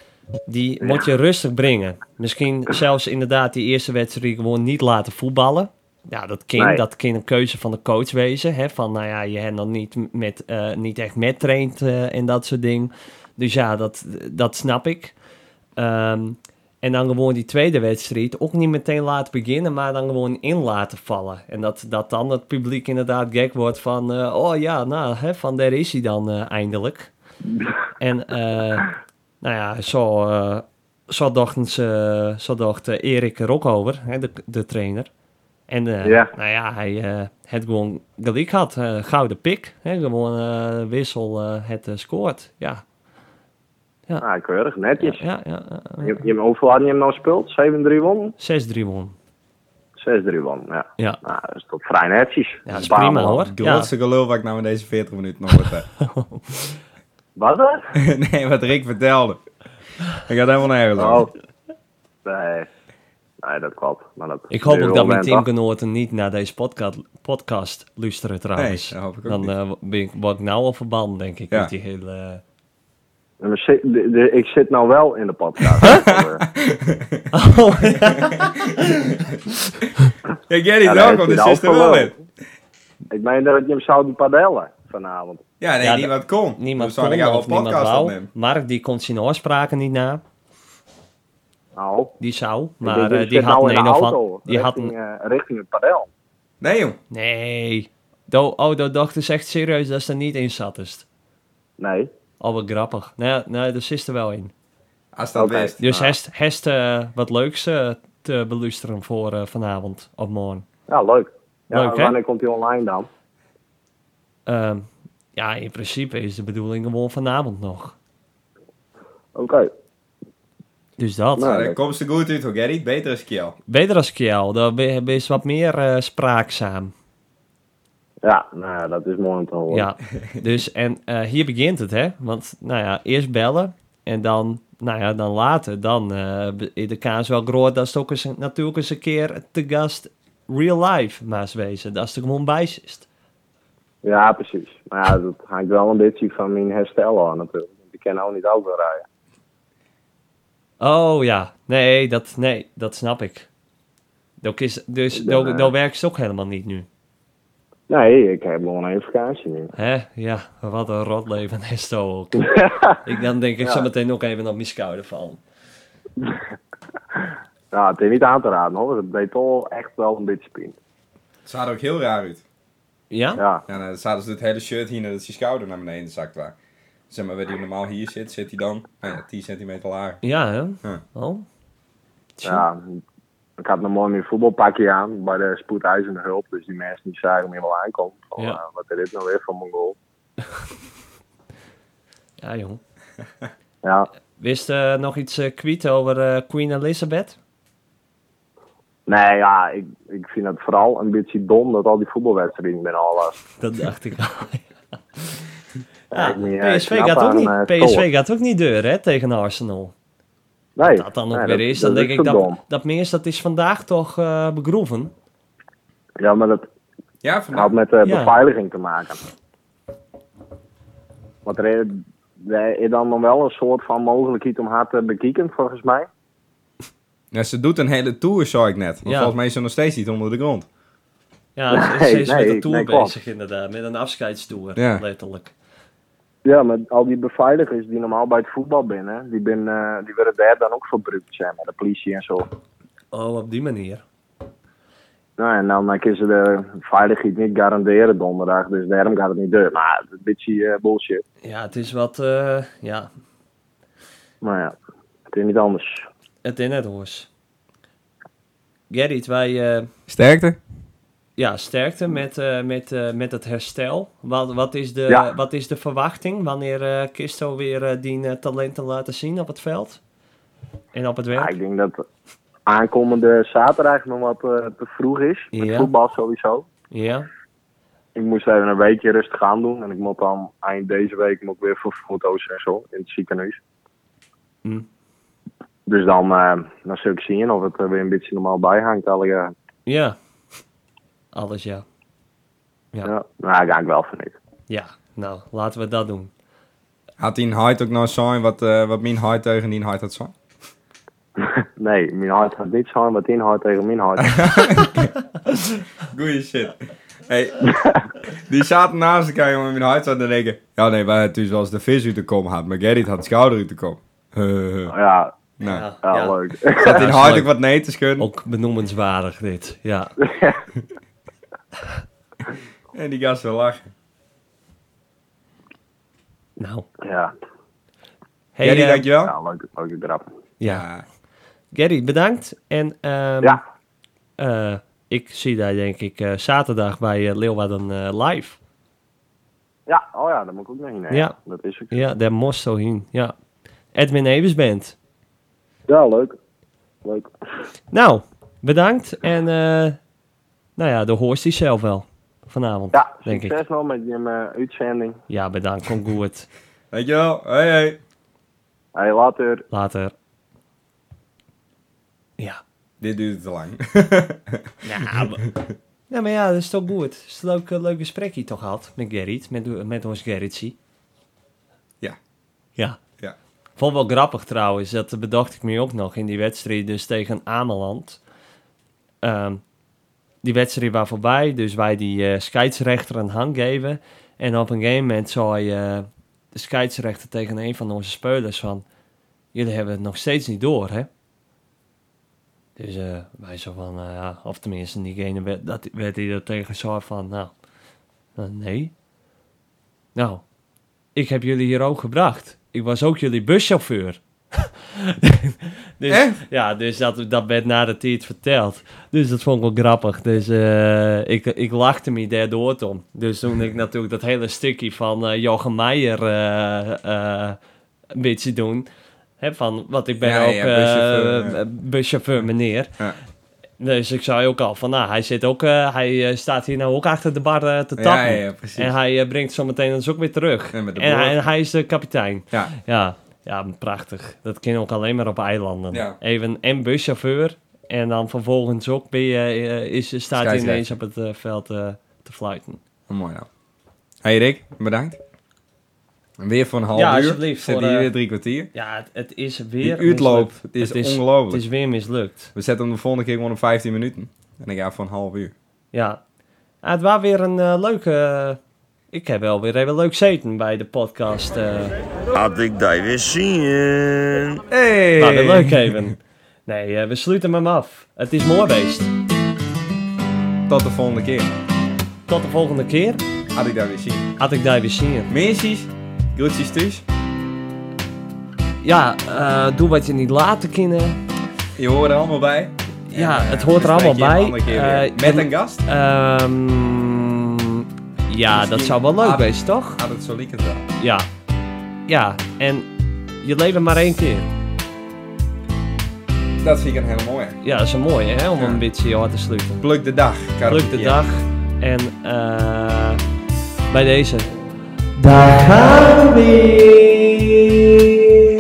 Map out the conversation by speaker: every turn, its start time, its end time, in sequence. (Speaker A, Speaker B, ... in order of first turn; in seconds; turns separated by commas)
Speaker A: 0.5-15.1, Speaker B: 6.6-6.8, Speaker A: 15.8-27.1, Speaker A: 28.0-28.9, Speaker A: 29.4-35.1, Speaker A: 35.7-42.8, Speaker B: 36.0-36.3, Speaker B: 44.2-45.2, Speaker A: 45.0-46.2, Speaker B: 46.0-48.4, Speaker A: 48.4-49.1, Speaker B: 50.0-53.5, Speaker A: 52.7-53.9, Speaker C: 53.5-55.9, Speaker A: 56.0-56.8, Speaker B: 57.4-57.9, Speaker C: 58.0-59.4, Speaker C: 60.3-61.3, Speaker B: 61.0-61.3, Speaker B: 62.2-62.7, Speaker B: 63.4-65.5, Speaker A: 64.5-72.4, Speaker C: 68.6-69.5, Speaker B: 73.4-76.5, Speaker C: 75.8-77.3, Speaker A: 77.3-80.1, Speaker C: 78.0-79.4, Speaker C: 80.5-82.2, Speaker B: 80.8-82.1, Speaker B: 83.1-85.4, Speaker C: 85.6-88.3, Speaker A: 85.8-90.2, Speaker B: 91.8-92.2, Speaker A: 92.2-94.9, Speaker B: 92.8-96.1, Speaker C: 96.6-97.0, Speaker A: 97.1-101.1, Speaker B: 101.8-102.1, Speaker A: 102.4-104.5, Speaker C: 105.1-105.8, Speaker B: 105.4-106.2, Speaker A: 105.8-110.7, Speaker B: 110.9-113.1, Speaker A: 111.7-112.1, Speaker A: 114.5-118.0, Speaker B: 119.3-119.7, Speaker A: 121.0-121.6, Speaker B: 121.4-121.8, Speaker C: 121.4-123.6, Speaker A: 123.7-126.9, Speaker B: 128.2-129.9, Speaker A: 129.7-143.1, Speaker B: 144.0-149.1, Speaker A: 150.8-153.5, Speaker A: 154.4-156.9, Speaker B: 155.2-155.7, Speaker B: 157.9-159.7, Speaker A: 159.7-165.4, Speaker B: 162.4-162.9, Speaker B: 167.7-170.8, Speaker C: 171.4-172.4, Speaker A: 173.1-173.4, Speaker B: 173.4-173.6, Speaker C: 173.7-176.6, Speaker C: 177.1-180.2, Speaker A: 180.2-181.4, Speaker A: 182.4-182.7, Speaker B: 182.4-183.0, Speaker B: 183.6-190.0, Speaker A: 192.4-192.8, Speaker B: 193.8-194.1, Speaker A: 194.4-197.4, Speaker B: 199.1-203.4, Speaker A: 203.6-204.7, Speaker B: 206.1-208.1, Speaker A: 206.1-209.9, Speaker B: 210.8-212.6, Speaker A: 211.0-215.1, Speaker B: 216.2-216.7, Speaker C: 217.2-217.7, Speaker B: 217.5-219.2, Speaker A: 218.0-218.3, Speaker B: 221.4-226.1, Speaker C: 227.3-230.7, Speaker A: 229.1-229.3, Speaker A: 231.6-235.5, Speaker B: 231.7-233.1, Speaker C: 234.8-235.0, Speaker B: 236.4-242.5, Speaker A: 243.1-244.0, Speaker B: 245.4-251.2, Speaker A: 251.4-253.1, Speaker B: 254.4-254.8, Speaker B: 255.3-256.1, Speaker A: 256.4-257.3, Speaker A: 258.9-259.9, Speaker C: 260.1-260.6, Speaker A: 261.4-270.0, Speaker A: 270.9-271.6, Speaker B: 271.3-272.0, Speaker B: 272.7-276.7, Speaker A: 275.5-275.9, Speaker A: 276.9-277.3, Speaker B: 278.2-283.6, Speaker B: 285.9-289.5, Speaker A: 289.9-290.2, Speaker A: 291.3-291.8, Speaker B: 293.1-294.4, Speaker A: 294.7-296.3, Speaker C: 297.2-300.3, Speaker B: 301.4-304.9, Speaker C: 304.3-305.1, Speaker C: 306.0-307.8, Speaker B: 307.7-308.1, Speaker C: 308.3-314.9, Speaker B: 314.9-315.4, Speaker C: 315.6-315.9, Speaker A: 315.6-317.5, Speaker B: 316.0-317.0, Speaker C: 316.8-318.3, Speaker A: 318.2-320.2, Speaker B: 320.2-320.6, Speaker C: 322.9-323.9, Speaker A: 326.6-326.9, Speaker B: 327.0-327.3, Speaker A: 328.6-329.1, Speaker C: 328.6-329.4, Speaker B: 329.2-330.3, Speaker A: 330.6-330.9, Speaker C: 330.6-331.1, Speaker A: 331.7-333.6, Speaker A: 334.4-338.6, Speaker B: 339.9-342.1, Speaker A: 341.9-343.3, Speaker A: 343.9-345.0, Speaker B: 345.9-346.4, Speaker B: 347.0-347.3, Speaker A: 347.9-350.0, Speaker A: 350.8-353.6, Speaker B: 352.9-355.2, Speaker A: 355.3-356.5, Speaker C: 356.9-358.0, Speaker B: 358.9-359.7, Speaker A: 359.7-360.1, Speaker C: 363.0-365.3, Speaker A: 364.8-365.4, Speaker A: 366.1-370.8, Speaker A: 373.8-378.2, Speaker A: 379.2-379.6, Speaker A: 380.4-388.9, Speaker A: 389.5-391.1, Speaker A: 392.8-397.5, Speaker A: 398.4-398.9, Speaker A: 400.1-400.4, Speaker A: 401.1-417.6, Speaker C: 406.1-406.4, Speaker A: 418.1-418.9, Speaker A: 419.4-423.0, Speaker C: 420.2-421.6, Speaker A: 423.8-442.8, Speaker C: 428.0-428.9, Speaker C: 430.7-431.4, Speaker C: 435.9-436.2, Speaker C: 440.4-440.9, Speaker C: 443.1-443.5, Speaker C: 444.2-445.2, Speaker C: 446.4-448.7, Speaker A: 446.9-448.1, Speaker A: 448.7-452.5, Speaker C: 449.8-451.6, Speaker C: 452.6-455.5, Speaker A: 455.9-456.2, Speaker A: 456.8-458.6, Speaker A: 459.1-461.9, Speaker D: 462.3-464.6, Speaker C: 464.7-466.0, Speaker A: 465.2-469.1, Speaker C: 470.7-471.5, Speaker A: 472.3-473.2, Speaker C: 473.5-474.3, Speaker A: 474.4-475.3, Speaker C: 475.3-477.1, Speaker A: 478.8-481.2, Speaker C: 481.8-485.8, Speaker A: 483.1-490.0, Speaker C: 488.5-490.9, Speaker A: 491.0-491.3, Speaker A: 492.1-492.9, Speaker A: 493.4-494.5, Speaker C: 496.6-497.6, Speaker A: 497.6-499.9, Speaker C: 499.8-501.2, Speaker A: 500.7-503.2, Speaker A: 503.9-504.5, Speaker A: 505.2-507.6